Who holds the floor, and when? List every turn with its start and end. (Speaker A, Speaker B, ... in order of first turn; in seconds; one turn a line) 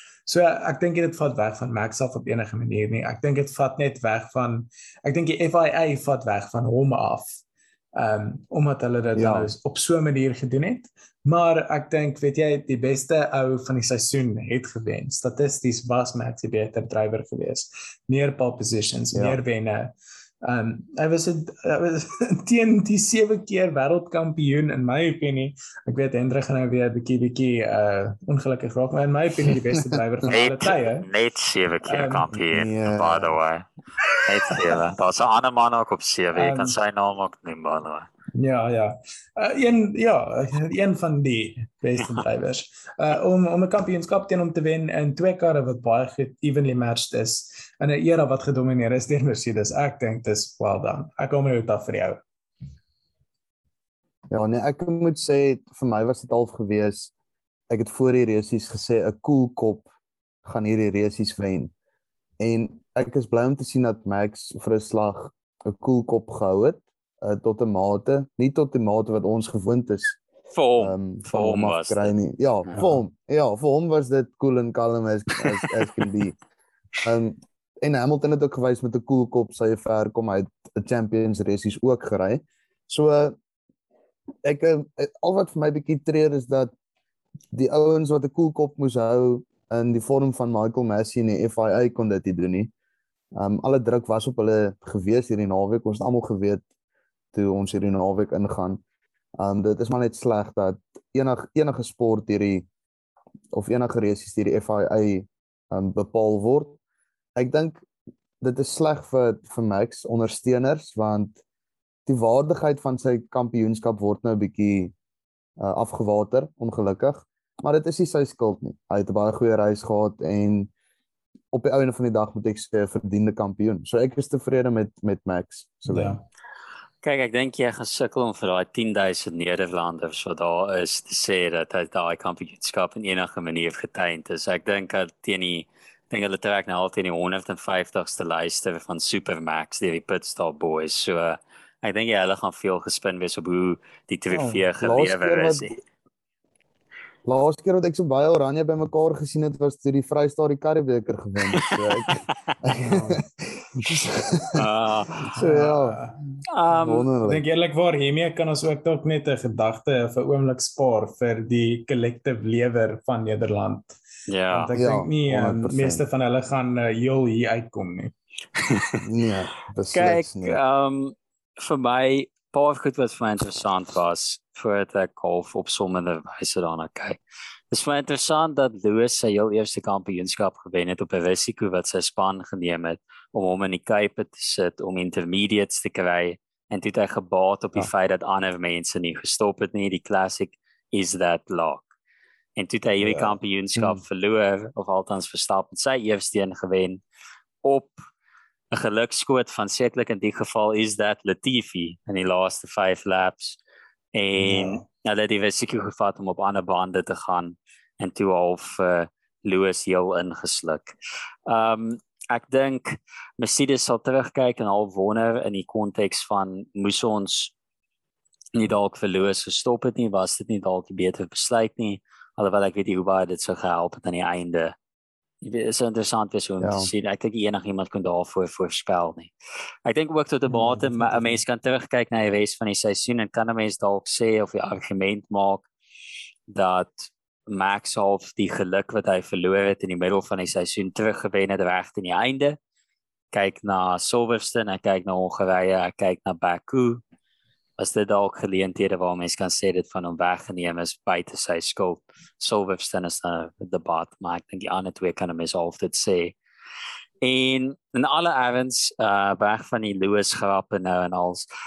Speaker A: 0.3-7.3
Speaker A: 7.9-31.1
Speaker B: 9.1-9.5
Speaker B: 19.1-19.4
Speaker C: 30.3-33.6
Speaker A: 31.9-32.3
Speaker B: 32.5-33.3
Speaker C: 34.2-38.1
Speaker A: 36.3-36.7
Speaker A: 38.4-52.2
Speaker B: 54.3-57.1
Speaker B: 57.7-59.9
Speaker B: 60.4-61.7
Speaker B: 62.4-70.2
Speaker C: 70.5-72.1
Speaker B: 70.8-76.4
Speaker B: 77.0-83.4
Speaker B: 84.4-86.7
Speaker B: 87.5-92.7
Speaker B: 93.3-96.6
Speaker B: 97.3-98.8
Speaker B: 99.4-102.7
Speaker B: 103.5-106.8
Speaker B: 107.3-107.8
Speaker B: 108.4-111.4
Speaker B: 112.1-114.9
Speaker B: 115.6-120.7
Speaker B: 121.5-126.2
Speaker A: 125.9-126.2
Speaker C: 127.0-145.8
Speaker B: 144.3-145.8
Speaker B: 147.2-153.2
Speaker C: 151.6-152.5
Speaker A: 152.9-153.2
Speaker B: 153.7-154.6
Speaker C: 154.5-155.3
Speaker A: 155.3-156.2
Speaker B: 155.3-156.0
Speaker C: 156.5-157.1
Speaker B: 156.7-157.4
Speaker A: 157.2-164.0
Speaker C: 164.3-164.7
Speaker A: 164.5-168.1
Speaker B: 164.7-166.0
Speaker C: 168.6-169.0
Speaker B: 169.0-170.6
Speaker C: 169.9-177.2
Speaker C: 177.7-191.9
Speaker C: 192.6-197.0
Speaker B: 193.0-194.0
Speaker C: 197.6-198.0
Speaker C: 198.7-203.6
Speaker C: 204.1-210.9
Speaker A: 204.4-204.8
Speaker C: 211.5-217.5
Speaker C: 218.5-224.7
Speaker C: 225.4-229.3
Speaker B: 226.6-226.9
Speaker C: 229.8-235.7
Speaker C: 236.5-242.6
Speaker C: 243.3-247.0
Speaker C: 247.8-256.3
Speaker C: 257.2-261.4